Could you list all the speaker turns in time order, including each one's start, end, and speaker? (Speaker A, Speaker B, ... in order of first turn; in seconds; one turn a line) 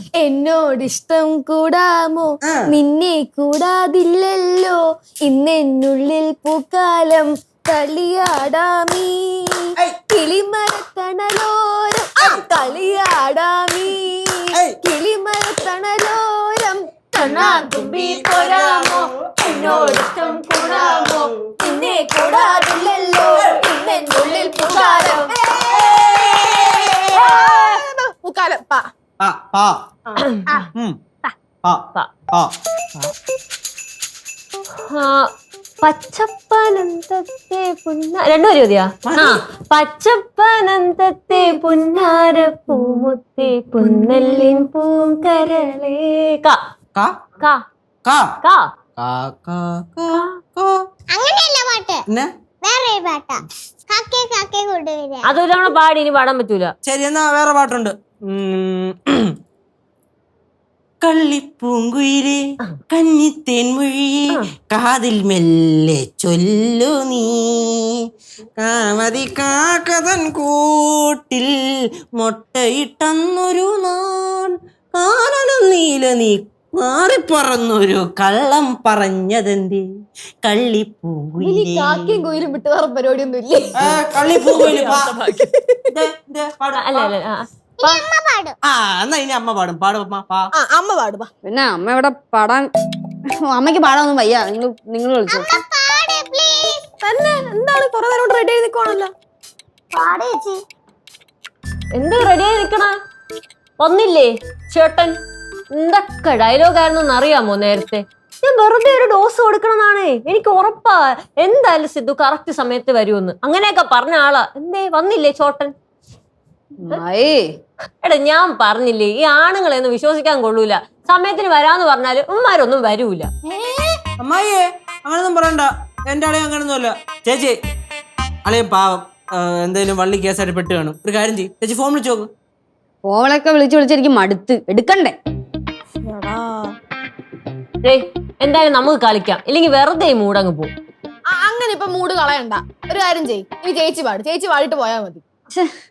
Speaker A: 0.2-2.2
Speaker A: 2.7-4.7
Speaker A: 5.3-9.5
Speaker A: 10.2-14.3
Speaker B: 12.2-12.4
Speaker A: 14.9-17.5
Speaker C: 17.1-25.3
Speaker B: 17.6-21.3
Speaker A: 22.1-22.9
Speaker B: 23.3-23.6
Speaker A: 24.0-25.4
Speaker B: 25.8-27.4
Speaker C: 27.1-27.5
Speaker A: 27.2-28.8
Speaker B: 29.2-30.2
Speaker B: 31.6-33.1
Speaker C: 34.9-35.3
Speaker C: 35.8-46.6
Speaker B: 39.0-39.4
Speaker C: 48.4-48.7
Speaker B: 49.0-50.7
Speaker D: 51.1-52.0
Speaker D: 52.6-55.3
Speaker C: 55.2-56.7
Speaker B: 56.8-59.3
Speaker B: 61.0-62.4
Speaker B: 62.9-67.7
Speaker B: 68.6-71.4
Speaker B: 72.2-79.8
Speaker B: 80.4-82.3
Speaker A: 82.6-83.6
Speaker B: 83.8-85.2
Speaker B: 85.9-87.1
Speaker C: 86.8-88.0
Speaker D: 87.8-88.5
Speaker B: 88.7-90.5
Speaker A: 90.6-91.2
Speaker E: 91.4-92.7
Speaker E: 93.4-95.5
Speaker D: 95.3-96.8
Speaker A: 97.0-99.1
Speaker D: 99.9-100.6
Speaker C: 101.9-102.9
Speaker C: 103.8-105.2
Speaker C: 105.8-115.7
Speaker E: 116.8-117.5
Speaker C: 118.0-123.3
Speaker B: 123.5-127.5
Speaker B: 128.4-132.3
Speaker E: 133.0-135.2
Speaker A: 136.1-136.5
Speaker C: 137.8-140.7
Speaker A: 141.4-145.2